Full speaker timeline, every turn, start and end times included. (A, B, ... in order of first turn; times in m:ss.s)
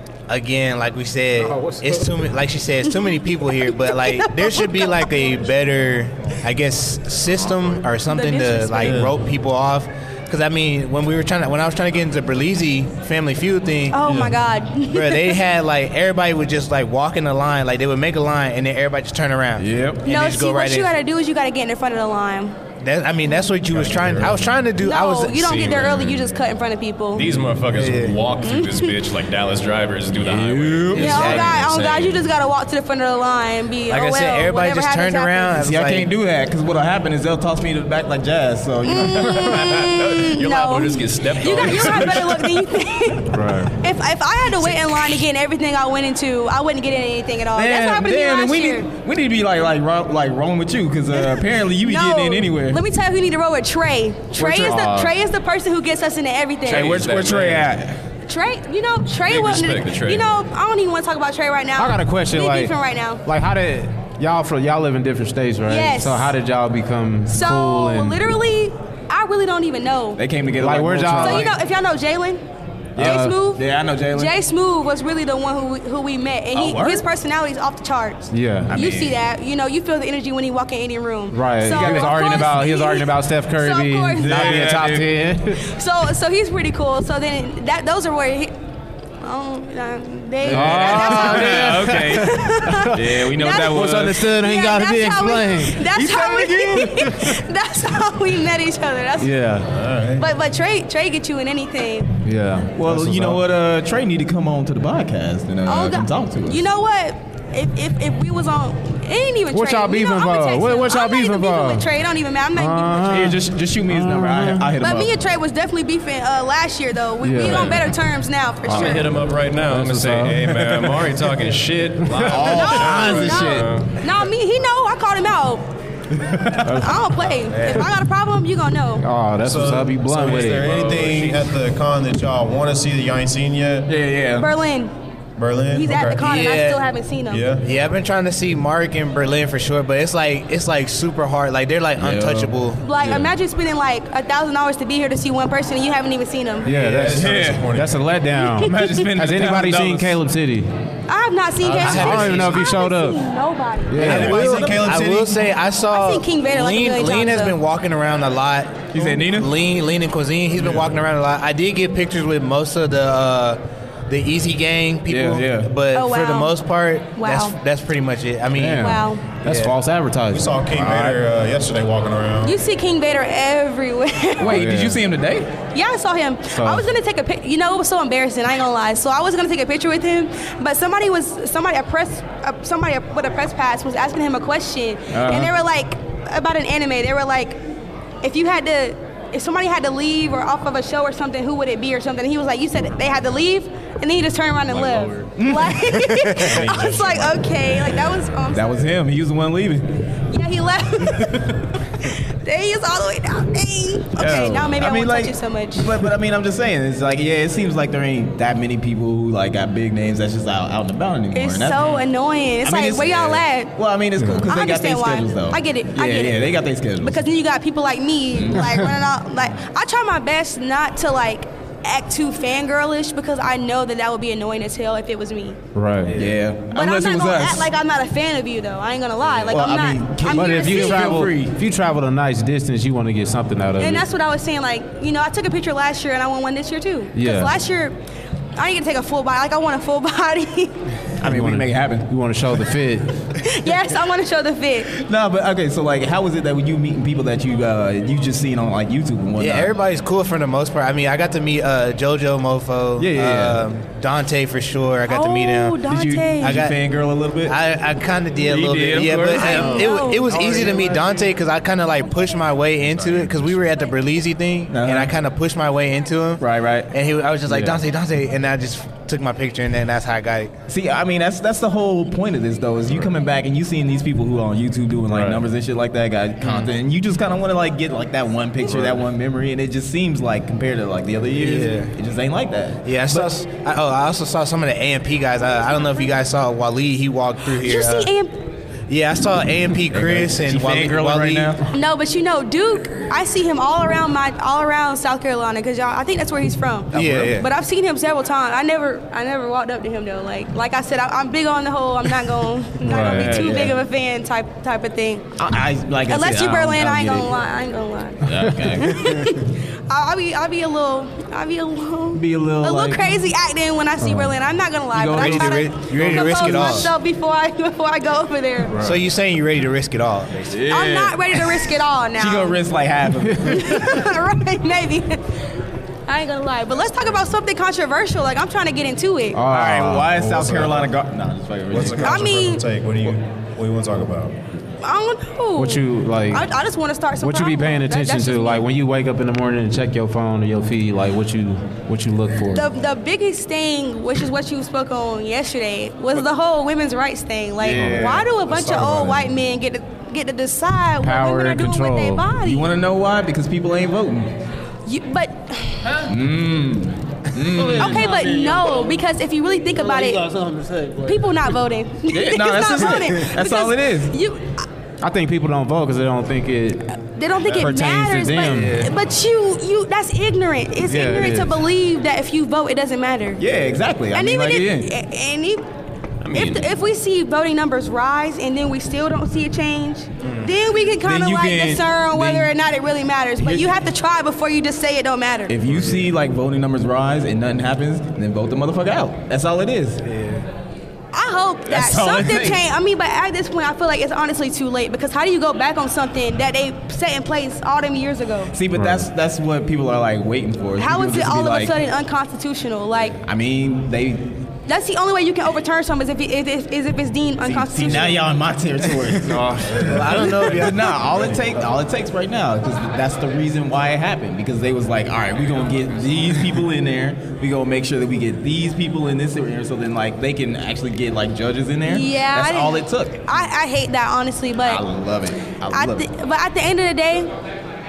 0:00.3-0:14.2 A
0:01.5-0:02.0 B
0:03.7-0:05.4 C
0:08.0-0:09.0 C
0:08.8-0:09.2 D
0:13.9-0:15.4 C
0:14.0-0:14.4 D
0:14.9-0:20.9 A
0:19.6-0:20.0 E
0:20.0-0:22.6 C
0:22.8-0:25.6 A
0:23.7-0:24.5 D
0:24.8-0:27.2 C
0:25.4-0:26.4 F
0:27.1-0:32.2 F
0:27.7-0:28.2 A
0:28.4-0:28.9 C
0:30.2-0:31.4 E
0:30.9-0:35.5 C
0:31.0-0:31.5 A
0:33.9-0:36.1 A
0:35.6-0:39.5 E
0:38.8-0:48.9 C
0:39.2-0:42.6 F
0:43.3-0:43.7 B
0:47.5-0:52.8 E
0:51.1-0:56.9 C
0:54.4-0:55.1 E
0:54.4-0:55.1 B
0:56.6-0:58.0 E
0:56.7-0:57.7 F
0:58.3-1:03.2 C
0:59.2-1:00.3 F
1:01.8-1:08.2 B
1:05.6-1:06.3 C
1:07.3-1:10.2 C
1:10.2-1:11.5 E
1:10.6-1:11.5 B
1:11.1-1:12.4 C
1:12.9-1:14.3 E
1:13.0-1:13.4 B
1:13.0-1:24.6 C
1:16.5-1:17.0 E
1:18.3-1:18.8 B
1:18.7-1:19.1 E
1:21.3-1:25.6 B
1:21.8-1:22.2 E
1:24.2-1:25.1 E
1:25.5-1:28.5 C
1:29.2-1:39.4 C
1:30.4-1:32.4 E
1:30.5-1:35.9 B
1:32.9-1:34.3 E
1:35.8-1:37.0 E
1:36.8-1:37.2 B
1:39.2-1:39.8 B
1:39.7-1:40.2 D
1:40.2-1:42.1 C
1:42.2-1:43.4 B
1:42.7-1:46.6 E
1:45.6-1:53.2 C
1:49.5-1:51.8 B
1:52.5-1:54.7 B
1:53.0-1:55.2 E
1:54.8-1:59.1 C
1:57.2-1:57.9 B
1:58.6-2:00.6 B
1:58.7-2:03.9 F
2:02.2-2:03.8 E
2:02.4-2:05.6 C
2:06.2-2:06.8 E
2:06.6-2:07.0 B
2:06.8-2:09.0 C
2:07.5-2:07.9 A
2:09.0-2:10.7 B
2:09.4-2:13.9 D
2:10.4-2:11.5 F
2:13.9-2:14.5 E
2:14.4-2:14.9 C
2:15.4-2:16.3 D
2:15.7-2:17.4 C
2:16.2-2:16.8 A
2:17.3-2:17.7 D
2:17.6-2:22.8 A
2:22.0-2:22.5 E
2:22.8-2:26.7 C
2:26.6-2:30.7 B
2:26.7-2:28.0 D
2:27.1-2:27.7 E
2:28.4-2:28.7 C
2:28.6-2:30.2 E
2:31.1-2:34.6 C
2:31.6-2:32.7 A
2:31.6-2:31.9 D
2:31.8-2:33.2 B
2:33.9-2:34.4 B
2:34.0-2:35.5 D
2:34.0-2:49.7 A
2:35.9-2:37.6 C
2:38.9-2:39.5 E
2:45.1-2:45.7 E
2:45.9-2:46.6 C
2:47.1-2:47.5 C
2:48.5-2:51.2 B
2:48.8-2:49.2 C
2:50.3-2:52.6 D
2:52.4-2:54.6 C
2:54.4-2:55.5 E
2:54.4-2:55.0 B
2:55.7-3:07.6 C
2:56.5-2:56.9 B
3:05.1-3:05.5 E
3:08.2-3:18.9 C
3:14.7-3:19.9 E
3:20.3-3:25.9 C
3:24.1-3:32.0 E
3:31.3-3:33.7 C
3:32.6-3:37.2 E
3:34.2-3:34.5 B
3:34.4-3:45.6 C
3:38.3-3:38.8 E
3:45.7-3:46.2 B
3:46.1-3:47.7 E
3:46.7-3:51.0 C
3:49.5-3:51.6 E
3:50.3-3:54.0 B
3:53.8-3:58.0 C
3:57.1-3:57.6 B
3:58.5-4:00.8 C
4:01.2-4:02.1 E
4:01.2-4:03.3 B
4:03.4-4:04.9 C
4:04.9-4:09.7 E
4:09.4-4:16.8 A
4:13.0-4:13.7 E
4:15.1-4:16.5 C
4:15.8-4:17.6 E
4:17.5-4:30.5 A
4:18.4-4:21.1 E
4:19.3-4:20.4 C
4:24.7-4:25.1 E
4:26.4-4:26.9 E
4:27.4-4:27.9 E
4:30.7-4:43.3 E
4:36.4-4:36.7 A
4:41.3-4:41.9 A
4:42.8-4:48.1 A
4:47.6-4:48.4 C
4:48.9-4:51.5 A
4:49.9-4:51.6 E
4:51.7-5:05.3 C
4:56.9-4:57.5 A
4:57.0-4:57.3 E
5:02.8-5:03.4 B
5:03.0-5:03.8 E
5:05.4-5:07.3 E
5:06.1-5:18.7 C
5:08.2-5:09.2 E
5:12.1-5:13.2 E
5:14.0-5:14.3 B
5:14.9-5:16.9 E
5:15.1-5:16.9 A
5:18.8-5:20.6 A
5:20.5-5:21.6 E
5:20.7-5:22.6 C
5:22.1-5:24.0 E
5:23.3-5:23.7 B
5:23.4-5:25.2 C
5:26.1-5:29.4 C
5:29.3-5:30.2 B
5:29.4-5:32.2 E
5:30.2-5:30.9 D
5:31.7-5:34.4 D
5:32.0-5:32.6 C
5:34.8-5:38.6 C
5:35.6-5:36.4 B
5:37.2-5:42.7 B
5:42.5-5:52.6 C
5:47.6-5:49.1 B
5:47.7-5:48.0 E
5:48.5-5:49.2 D
5:51.0-5:52.3 B
5:52.4-5:54.3 E
5:54.8-5:56.0 C
5:56.0-5:58.2 E
5:57.6-6:00.4 C
5:57.7-5:58.6 B
6:00.9-6:04.7 C
6:02.1-6:04.1 E
6:05.0-6:06.9 B
6:07.1-6:13.4 C
6:07.5-6:08.9 B
6:10.8-6:11.6 B
6:13.4-6:14.9 E
6:14.1-6:15.6 C
6:16.2-6:16.7 F
6:16.3-6:25.5 C
6:20.2-6:20.5 A
6:21.0-6:22.5 E
6:23.4-6:23.8 E
6:25.5-6:30.0 E
6:30.0-6:30.4 A
6:31.1-6:38.5 C
6:31.7-6:32.6 E
6:38.5-6:41.9 E
6:38.7-6:39.1 B
6:40.8-6:43.2 C
6:43.2-6:44.4 E
6:44.6-6:48.2 C
6:47.4-6:49.5 E
6:49.2-6:49.9 B
6:49.6-6:51.4 D
6:49.7-6:51.0 A
6:50.4-7:03.2 E
7:01.8-7:04.8 C
7:04.6-7:06.1 E
7:05.7-7:07.3 C